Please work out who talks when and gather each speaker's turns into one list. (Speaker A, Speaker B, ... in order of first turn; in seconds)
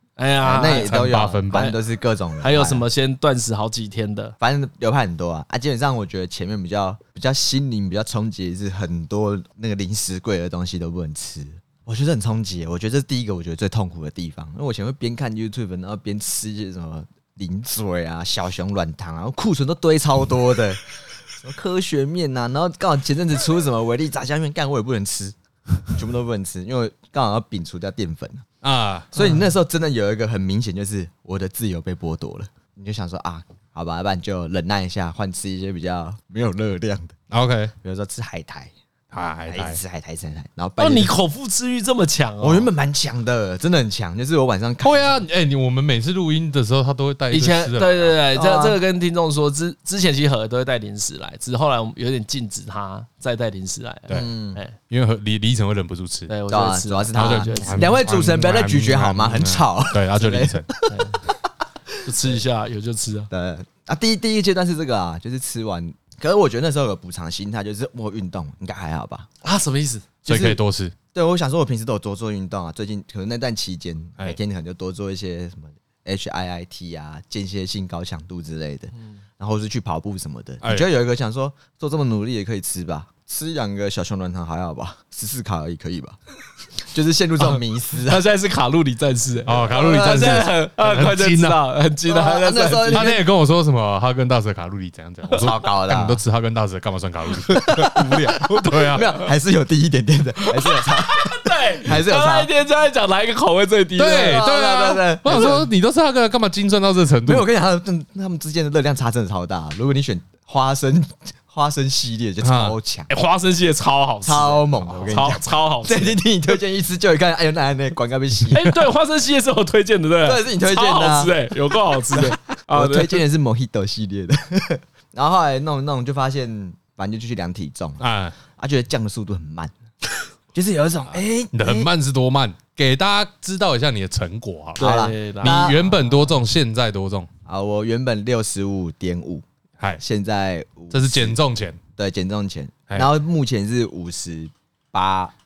Speaker A: 0.2-1.7, 2.4-4.3, 40.8-42.7, 47.3-54.7, 56.3-57.9, 60.9-61.2, 62.0-63.3, 69.4-70.1, 88.0-93.2, 98.2-99.3, 100.4-104.5, 113.1-116.2, 118.5-123.2, 134.8-135.6
Speaker B: 0.4-2.9, 4.4-25.4, 25.9-28.5, 29.1-37.1, 37.8-38.7, 39.5-41.1, 42.4-45.2, 48.3-48.8, 54.1-54.6, 56.5-61.1, 63.3-69.3, 70.3-70.6, 71.1-86.2, 86.8-88.2, 89.7-90.5, 92.1-93.2, 95.3-96.2, 97.5-102.5, 104.2-105.7, 107.2-113.1, 114.2-118.8, 120.2-128.0, 128.6-129.7, 130.5-131.9, 134.8-136.0, 137.5-139.4, 140.0-141.4, 142.0-145.3
Speaker C: 0.7-1.8, 28.6-29.1, 37.3-37.7, 39.1-39.8, 44.8-48.2, 54.9-56.3, 57.1-60.7, 70.2-71.0, 80.6-80.9, 89.5-91.7, 92.9-99.1, 104.0-107.5, 112.4-112.8, 128.0-128.3, 131.5-137.3, 140.9-141.8